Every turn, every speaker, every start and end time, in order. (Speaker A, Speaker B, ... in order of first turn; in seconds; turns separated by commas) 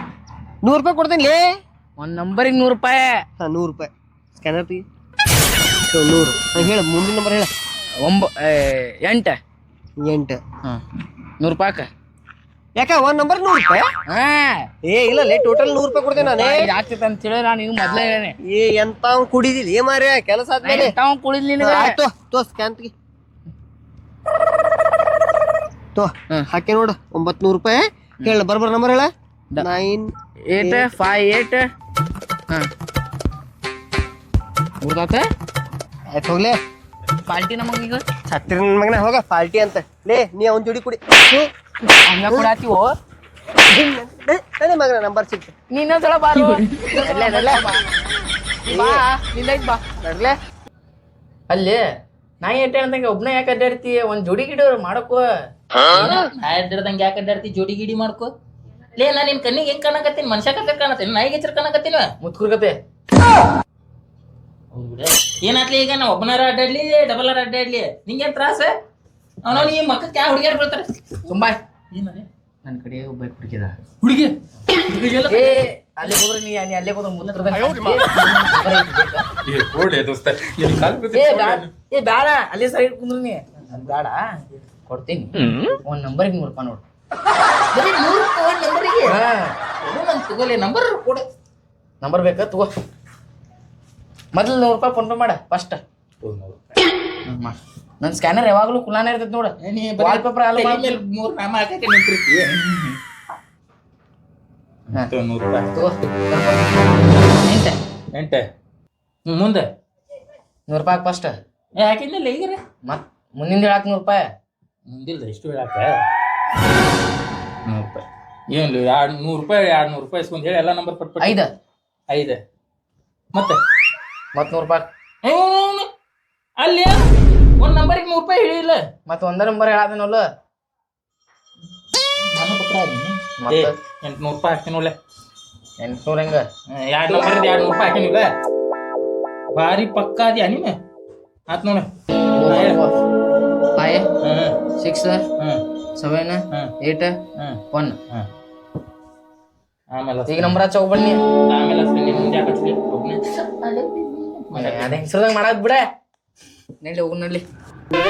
Speaker A: 0.6-1.4, Speaker B: 2.0-3.2, Speaker A: 3.4-3.9, Speaker A: 4.4-4.8, Speaker A: 5.9-7.5, Speaker B: 8.0-9.4, Speaker A: 10.0-10.4, Speaker B: 11.4-11.9, Speaker A: 12.8-13.8, Speaker B: 14.1-14.7, Speaker A: 14.9-16.7, Speaker B: 16.2-18.4, Speaker A: 18.4-20.9, Speaker B: 20.6-21.9, Speaker A: 21.6-22.9, Speaker A: 25.9-30.9, Speaker B: 30.5-31.7, Speaker B: 34.8-35.2, Speaker A: 36.1-36.6, Speaker B: 37.2-38.0, Speaker A: 38.3-41.5, Speaker B: 42.1-42.9, Speaker A: 43.7-45.5, Speaker B: 45.7-47.8, Speaker A: 47.0-47.8, Speaker B: 48.6-50.4, Speaker A: 48.7-49.0, Speaker B: 51.5-51.8, Speaker B: 52.4-55.2, Speaker C: 55.9-58.3, Speaker C: 59.0-62.1, Speaker B: 62.2-62.8, Speaker C: 64.7-68.8, Speaker C: 69.4-70.9, Speaker B: 71.3-71.6, Speaker C: 71.9-72.2, Speaker B: 72.6-73.8, Speaker C: 74.0-74.3, Speaker C: 74.9-75.6, Speaker B: 75.3-79.2, Speaker C: 79.5-81.7, Speaker B: 81.1-86.8, Speaker C: 87.7-89.1, Speaker B: 89.1-89.5, Speaker C: 89.8-91.2, Speaker B: 92.0-92.7, Speaker B: 94.3-95.8, Speaker C: 96.2-96.6, Speaker B: 97.3-101.0, Speaker C: 99.6-102.8, Speaker C: 105.1-105.7, Speaker B: 105.7-107.2, Speaker C: 107.4-108.4, Speaker C: 109.3-109.7, Speaker B: 110.7-111.3, Speaker C: 111.7-112.6, Speaker B: 112.8-114.2, Speaker C: 114.9-115.9, Speaker C: 117.7-121.4, Speaker B: 121.2-121.5, Speaker C: 122.1-122.4, Speaker B: 124.3-124.9, Speaker C: 125.2-125.9, Speaker C: 126.6-126.9, Speaker C: 127.6-128.8, Speaker B: 129.1-130.2, Speaker C: 132.3-134.9, Speaker B: 133.4-133.7, Speaker B: 135.8-136.4, Speaker C: 136.7-138.3, Speaker C: 139.5-140.7, Speaker C: 141.5-141.9, Speaker B: 142.3-142.9, Speaker C: 142.4-142.8, Speaker B: 143.8-144.1, Speaker C: 144.2-144.6, Speaker B: 144.8-145.2, Speaker B: 146.0-147.1, Speaker B: 147.7-148.0, Speaker C: 149.9-150.6, Speaker B: 150.3-151.2, Speaker C: 151.5-155.0, Speaker B: 154.5-155.8, Speaker B: 156.8-157.4